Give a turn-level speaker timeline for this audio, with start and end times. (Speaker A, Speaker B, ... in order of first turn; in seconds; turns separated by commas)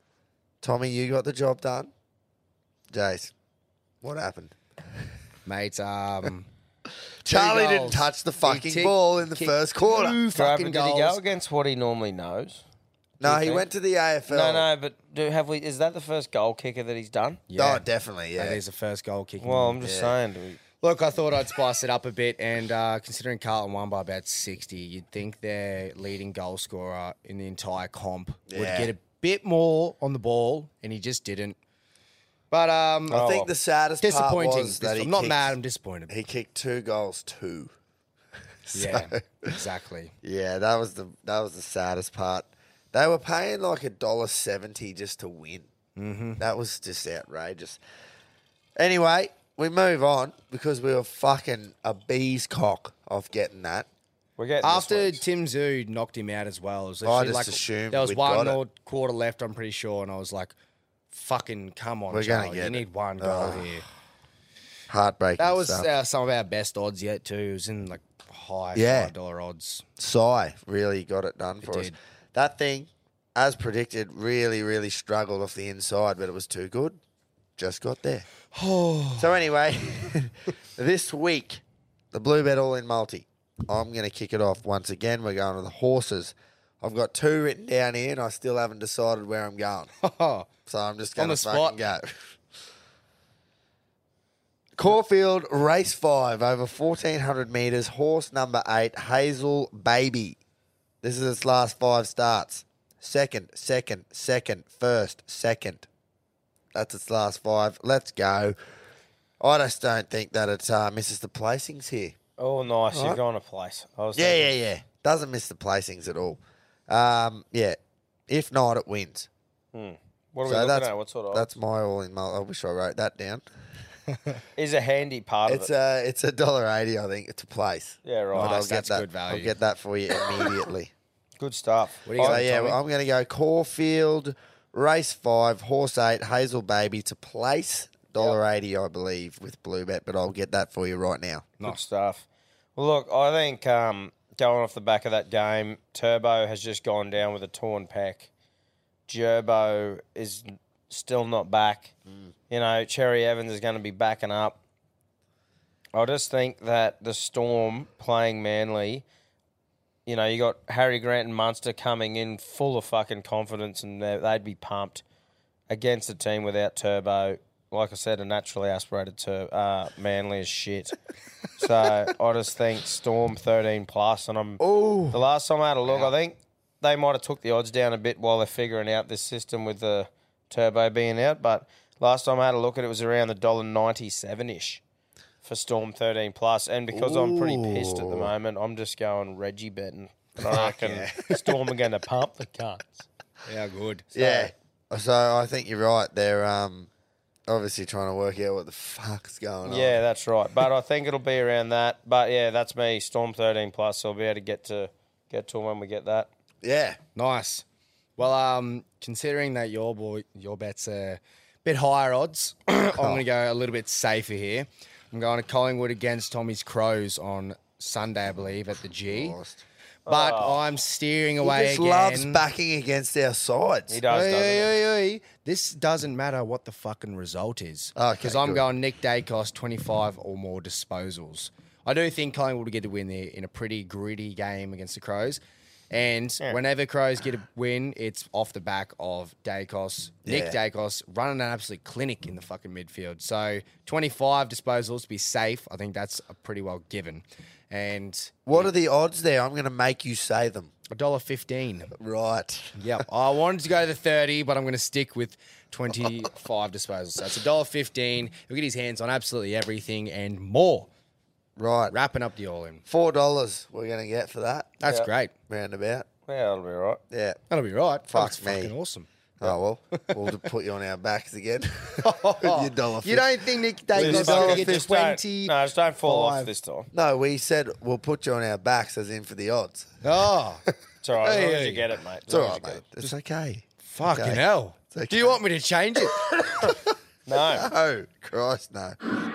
Speaker A: 0.6-1.9, Speaker A: 2.9-3.3, Speaker A: 4.0-4.5, Speaker B: 5.5-6.5, Speaker A: 7.2-10.2, Speaker B: 7.3-11.2, Speaker C: 10.3-12.6, Speaker A: 13.2-14.7, Speaker C: 13.2-13.7, Speaker C: 14.3-17.4, Speaker B: 17.5-19.8, Speaker A: 17.6-18.6, Speaker C: 19.4-20.6, Speaker A: 19.8-20.1, Speaker B: 20.8-31.6, Speaker A: 28.5-28.9, Speaker B: 32.5-33.4, Speaker A: 33.1-35.5, Speaker B: 34.0-36.1, Speaker A: 36.1-37.7, Speaker A: 38.7-39.5, Speaker B: 38.7-40.1, Speaker A: 40.2-45.7, Speaker B: 46.0-46.4, Speaker A: 46.4-47.8, Speaker A: 48.8-53.9, Speaker C: 54.4-55.2, Speaker B: 54.6-60.5, Speaker A: 57.0-58.6, Speaker B: 61.1-63.9, Speaker A: 62.1-63.8, Speaker A: 64.9-65.9, Speaker B: 65.4-69.8, Speaker A: 68.8-69.1, Speaker A: 70.0-77.0, Speaker B: 71.6-72.0, Speaker A: 77.6-78.3, Speaker B: 78.5-79.3, Speaker A: 79.2-89.9, Speaker B: 90.0-90.5, Speaker A: 90.7-92.3, Speaker B: 91.2-91.8, Speaker A: 94.8-100.4, Speaker A: 101.0-105.9, Speaker A: 106.7-108.6, Speaker A: 109.4-112.2, Speaker C: 112.4-114.5, Speaker A: 112.9-113.2, Speaker A: 114.2-117.8, Speaker A: 118.3-119.3, Speaker C: 119.7-121.5, Speaker A: 120.5-123.4, Speaker C: 124.6-125.7, Speaker A: 125.5-130.9, Speaker C: 128.1-128.6, Speaker B: 128.3-129.6, Speaker C: 131.4-132.4, Speaker B: 132.1-132.8, Speaker A: 132.2-141.5, Speaker C: 141.6-142.2, Speaker C: 142.8-148.3, Speaker C: 149.1-151.9, Speaker C: 152.5-154.6, Speaker C: 155.9-159.0, Speaker C: 160.1-165.0, Speaker C: 165.7-171.0, Speaker C: 171.6-184.8, Speaker A: 174.6-175.2, Speaker C: 185.4-193.1, Speaker A: 186.9-188.3, Speaker B: 190.4-191.7, Speaker B: 193.5-194.5, Speaker A: 194.1-196.9, Speaker A: 197.5-200.0, Speaker C: 199.7-206.3, Speaker A: 206.6-207.0, Speaker B: 207.2-207.7, Speaker B: 208.2-219.4, Speaker A: 219.1-219.6, Speaker B: 220.1-222.4, Speaker C: 220.1-220.6, Speaker A: 221.4-224.0, Speaker C: 223.9-224.7, Speaker B: 224.1-248.7, Speaker A: 228.0-228.7, Speaker A: 240.2-240.6, Speaker A: 248.5-250.7, Speaker B: 250.9-251.9, Speaker A: 252.0-252.8, Speaker B: 252.8-260.9, Speaker A: 261.6-261.9, Speaker B: 261.9-262.8, Speaker A: 262.9-264.7, Speaker B: 264.8-265.3, Speaker A: 265.5-266.1, Speaker C: 266.3-267.0, Speaker A: 267.1-267.4, Speaker B: 267.5-270.4, Speaker A: 268.1-268.7, Speaker A: 269.4-274.8, Speaker B: 272.0-276.5, Speaker C: 274.0-276.9, Speaker A: 276.9-280.0, Speaker B: 280.0-280.6, Speaker C: 281.0-282.8, Speaker B: 281.2-281.9, Speaker A: 282.3-285.4, Speaker B: 283.8-286.3, Speaker A: 286.4-286.8, Speaker C: 287.3-287.7, Speaker A: 287.6-289.0